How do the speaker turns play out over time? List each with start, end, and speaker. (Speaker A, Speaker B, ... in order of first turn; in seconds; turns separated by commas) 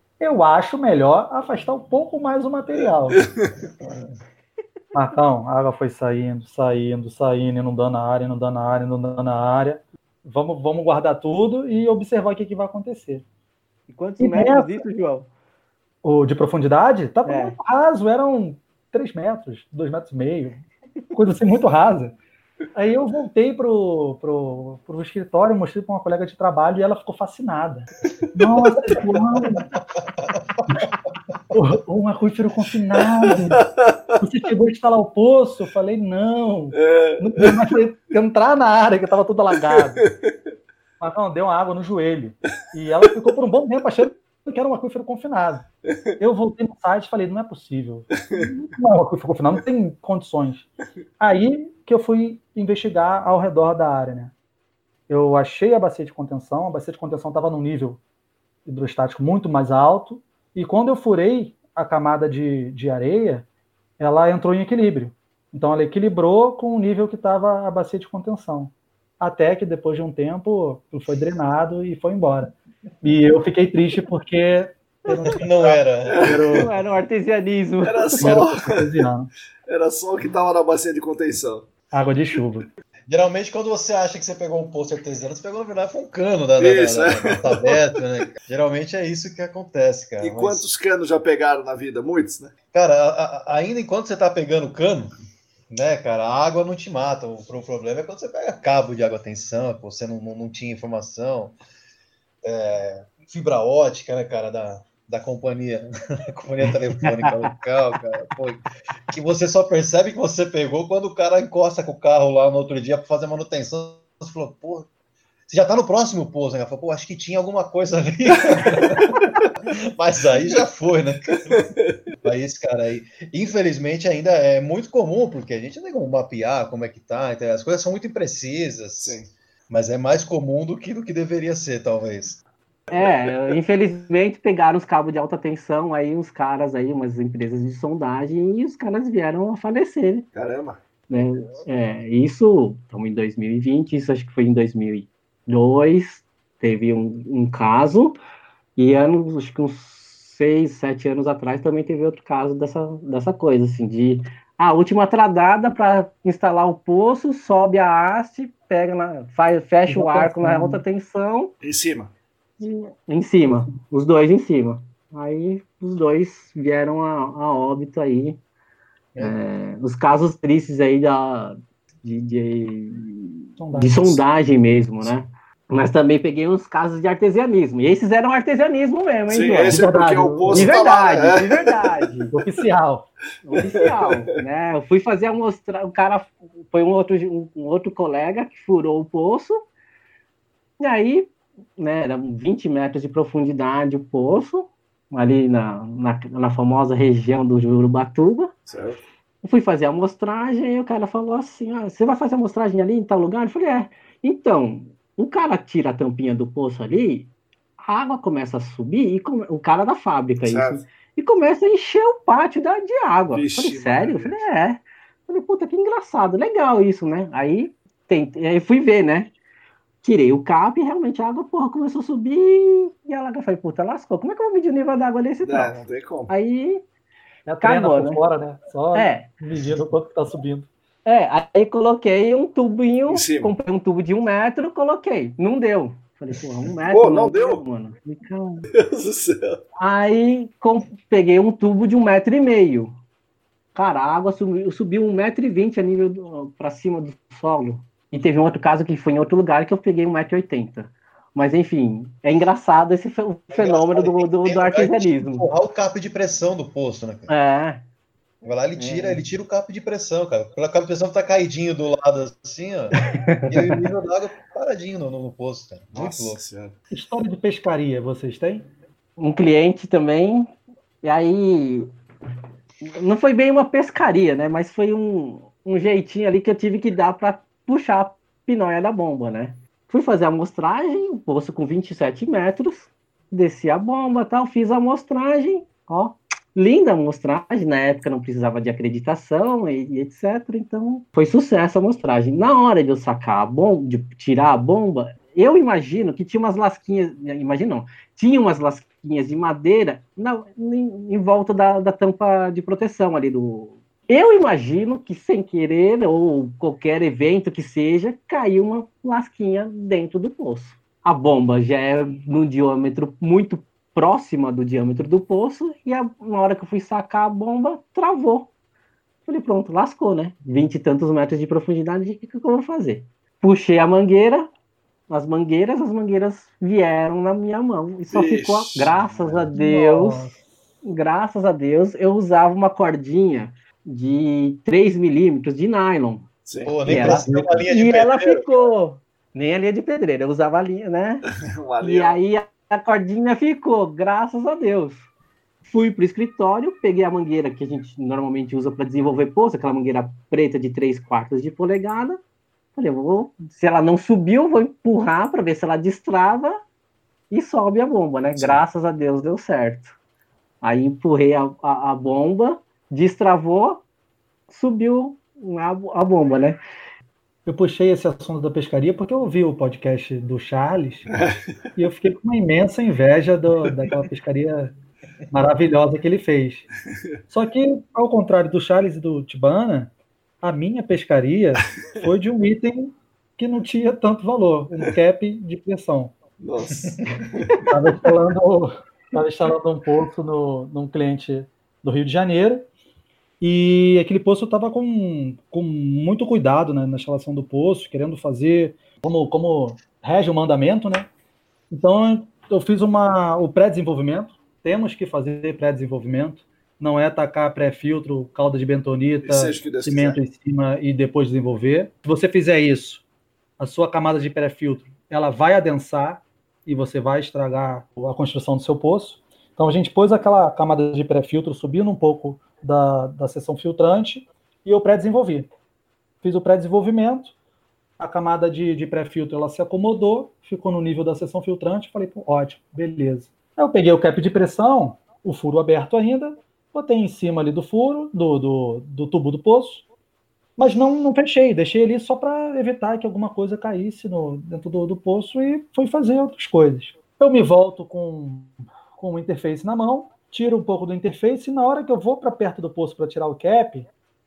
Speaker A: 0.2-3.2, Speaker B: 3.1-3.6, Speaker A: 4.9-13.2, Speaker C: 13.9-15.3, Speaker A: 14.2-14.7, Speaker A: 16.0-22.1, Speaker C: 17.2-17.6, Speaker A: 22.7-29.7, Speaker A: 31.5-33.6, Speaker B: 33.7-34.0, Speaker A: 34.2-40.0, Speaker B: 36.7-37.6, Speaker B: 39.7-40.3, Speaker A: 41.0-45.7, Speaker B: 45.8-46.1, Speaker A: 46.2-50.7, Speaker A: 51.2-54.3, Speaker A: 55.1-58.0, Speaker A: 58.6-63.5, Speaker A: 64.0-76.7, Speaker D: 75.2-76.3, Speaker B: 76.1-76.6, Speaker C: 76.5-78.3, Speaker B: 77.8-78.8, Speaker A: 78.2-79.3, Speaker B: 79.7-81.7, Speaker A: 81.9-82.7, Speaker D: 83.1-90.6, Speaker B: 86.6-87.8, Speaker B: 90.2-92.5, Speaker D: 92.7-95.2, Speaker D: 95.7-101.6, Speaker D: 102.4-114.9, Speaker C: 106.6-107.4, Speaker D: 115.5-121.7, Speaker B: 121.4-122.0, Speaker D: 122.2-132.4, Speaker B: 129.0-129.3, Speaker B: 132.9-133.6, Speaker C: 132.9-140.2, Speaker B: 140.3-140.8, Speaker C: 141.1-148.2, Speaker C: 148.8-161.5, Speaker A: 159.9-160.8, Speaker B: 161.6-162.1, Speaker C: 162.6-168.4, Speaker C: 169.2-179.8, Speaker A: 173.6-174.2, Speaker B: 179.3-181.9, Speaker A: 179.7-180.7, Speaker C: 180.4-182.3, Speaker A: 182.3-183.1, Speaker C: 183.4-189.5, Speaker B: 183.6-184.3, Speaker C: 190.8-198.5, Speaker B: 198.7-199.0, Speaker C: 199.4-207.3, Speaker C: 207.8-219.3, Speaker B: 210.4-210.8, Speaker B: 213.3-214.4, Speaker C: 220.0-226.8, Speaker B: 225.4-226.3, Speaker A: 227.5-230.7, Speaker C: 227.6-228.2, Speaker C: 228.9-229.3, Speaker C: 231.1-238.7, Speaker B: 233.1-233.5, Speaker B: 236.9-237.6, Speaker B: 238.7-239.6, Speaker C: 239.8-242.9, Speaker C: 243.7-255.5, Speaker D: 253.5-257.3, Speaker C: 257.3-257.8, Speaker D: 258.4-266.4, Speaker C: 258.8-259.2, Speaker C: 263.0-263.9, Speaker B: 265.9-266.7, Speaker A: 266.9-268.6, Speaker C: 269.2-271.9, Speaker C: 272.8-318.5, Speaker C: 319.3-324.5, Speaker C: 325.1-330.3, Speaker B: 328.1-329.5, Speaker A: 329.5-330.4, Speaker C: 330.8-336.3, Speaker B: 336.4-337.2, Speaker D: 336.6-338.5, Speaker C: 336.8-341.3, Speaker B: 341.4-342.2, Speaker C: 341.8-345.0, Speaker C: 345.6-352.2, Speaker C: 352.7-356.6, Speaker C: 357.3-359.9, Speaker B: 358.4-358.6, Speaker C: 360.6-363.8, Speaker C: 364.5-366.6, Speaker A: 367.4-371.1, Speaker B: 371.1-371.5, Speaker A: 371.8-374.7, Speaker A: 375.3-376.7, Speaker A: 377.3-379.9, Speaker A: 380.4-386.1, Speaker B: 386.4-387.6, Speaker A: 387.7-392.7, Speaker A: 393.4-401.1, Speaker A: 401.7-413.0, Speaker B: 409.2-410.2, Speaker A: 413.6-425.5, Speaker A: 426.2-427.3, Speaker A: 428.0-439.8, Speaker A: 440.6-453.9